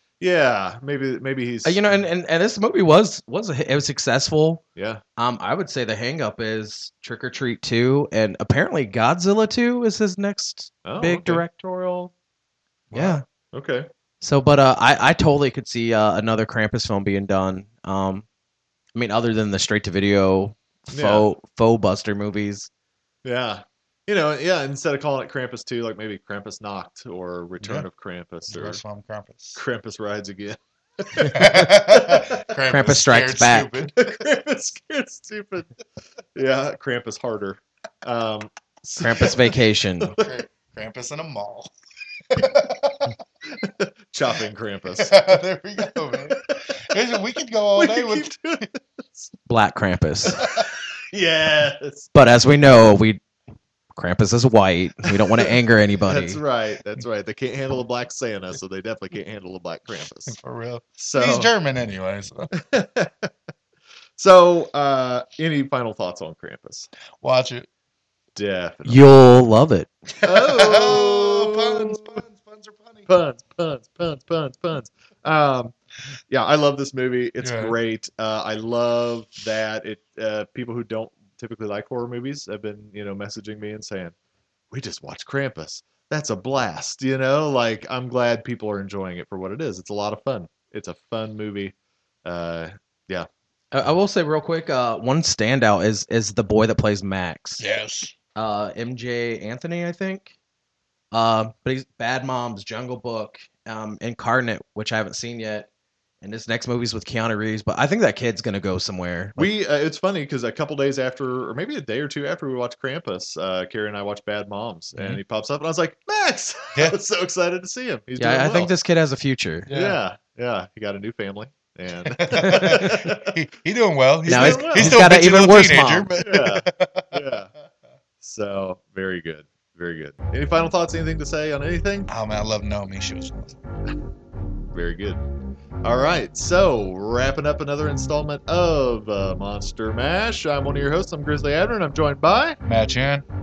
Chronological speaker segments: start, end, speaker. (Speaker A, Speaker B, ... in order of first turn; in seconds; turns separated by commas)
Speaker A: 0.2-1.8, Speaker B: 1.6-4.6, Speaker A: 4.8-5.0, Speaker B: 5.2-12.1, Speaker A: 10.8-11.6, Speaker C: 12.9-13.2, Speaker B: 12.9-13.2, Speaker A: 13.5-13.9, Speaker B: 14.2-18.2, Speaker B: 18.9-22.7, Speaker A: 20.9-21.2, Speaker A: 23.2-28.8, Speaker C: 27.6-27.9, Speaker C: 28.5-29.6, Speaker A: 29.5-31.3, Speaker B: 31.2-31.7, Speaker C: 31.2-34.1, Speaker A: 31.9-32.5, Speaker B: 32.7-33.7, Speaker A: 34.0-35.7, Speaker A: 36.4-40.4, Speaker B: 39.0-40.1, Speaker C: 40.2-41.7, Speaker C: 42.3-43.1, Speaker A: 43.5-45.4, Speaker C: 45.0-48.3, Speaker A: 46.1-46.9, Speaker A: 47.8-49.3, Speaker B: 49.5-50.4, Speaker A: 50.4-52.1, Speaker C: 50.4-50.7, Speaker B: 52.1-53.2, Speaker B: 53.9-56.4, Speaker A: 56.0-60.4, Speaker C: 60.2-62.5, Speaker A: 61.0-61.5, Speaker A: 62.5-63.3, Speaker A: 64.2-66.9, Speaker C: 67.2-67.7, Speaker A: 68.3-69.0, Speaker B: 68.8-69.9, Speaker C: 70.2-73.1, Speaker A: 70.2-72.2, Speaker A: 73.0-75.7, Speaker A: 76.3-84.1, Speaker C: 77.4-77.7, Speaker A: 84.7-93.3, Speaker B: 93.7-97.6, Speaker C: 97.6-98.1, Speaker B: 98.3-100.3, Speaker B: 101.1-105.7, Speaker B: 106.2-109.4, Speaker A: 109.4-118.7, Speaker B: 118.2-119.7, Speaker C: 119.7-120.0, Speaker A: 119.7-123.3, Speaker C: 122.1-127.2, Speaker B: 122.4-122.7, Speaker B: 124.3-126.1, Speaker A: 124.3-125.0, Speaker A: 126.2-127.5, Speaker A: 128.2-132.1, Speaker C: 132.1-133.6, Speaker A: 134.7-135.2, Speaker A: 135.8-142.6, Speaker C: 142.6-143.2